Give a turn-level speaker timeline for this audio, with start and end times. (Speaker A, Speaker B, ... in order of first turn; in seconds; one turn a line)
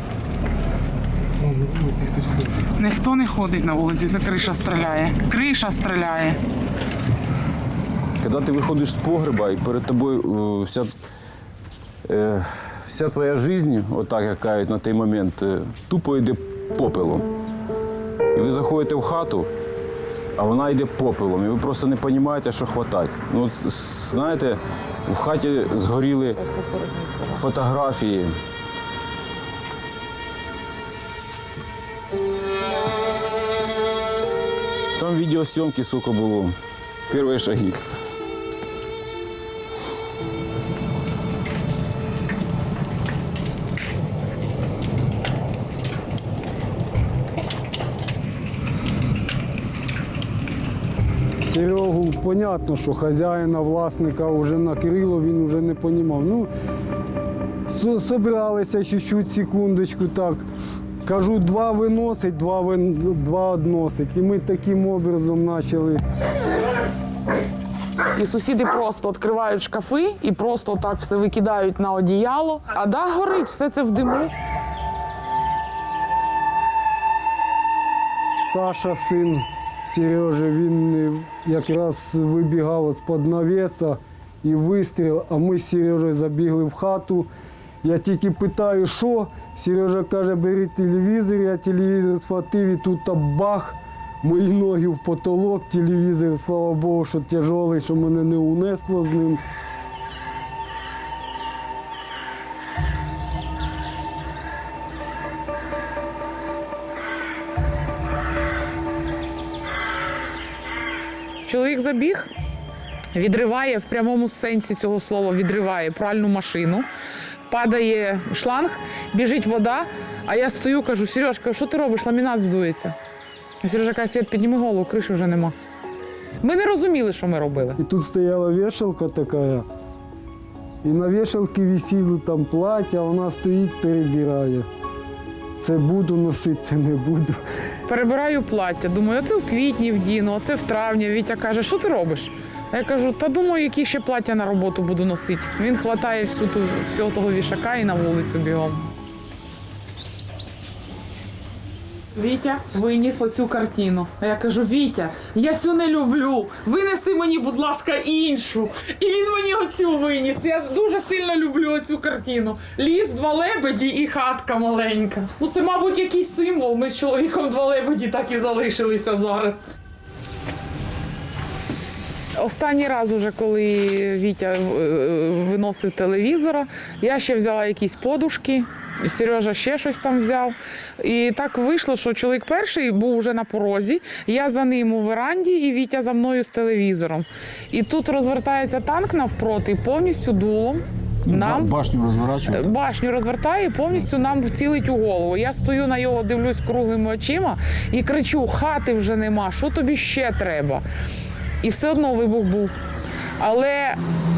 Speaker A: 2.7-6.4
Speaker B: 8.2-10.9
Speaker B: 12.1-17.3
Speaker B: 18.3-19.5
Speaker B: 20.4-26.4
Speaker A: 26.4-27.5
Speaker B: 27.4-28.4
Speaker B: 35.0-36.6
Speaker B: 37.1-37.8
Speaker C: 51.4-56.5
Speaker C: 57.7-60.5
Speaker C: 61.0-66.0
Speaker A: 68.1-74.3
Speaker C: 78.5-87.3
Speaker C: 87.8-99.4
Speaker A: 111.4-112.3
Speaker A: 113.1-116.9
Speaker A: 117.5-123.0
Speaker A: 123.6-125.5
Speaker A: 126.4-127.8
Speaker C: 127.8-129.7
Speaker C: 130.8-134.7
Speaker C: 135.6-137.4
Speaker A: 137.9-148.9
Speaker A: 152.1-169.7
Speaker A: 172.3-191.8
Speaker B: 191.3-192.7
Speaker A: 192.4-200.8
Speaker A: 201.6-202.7
Speaker A: 203.4-204.0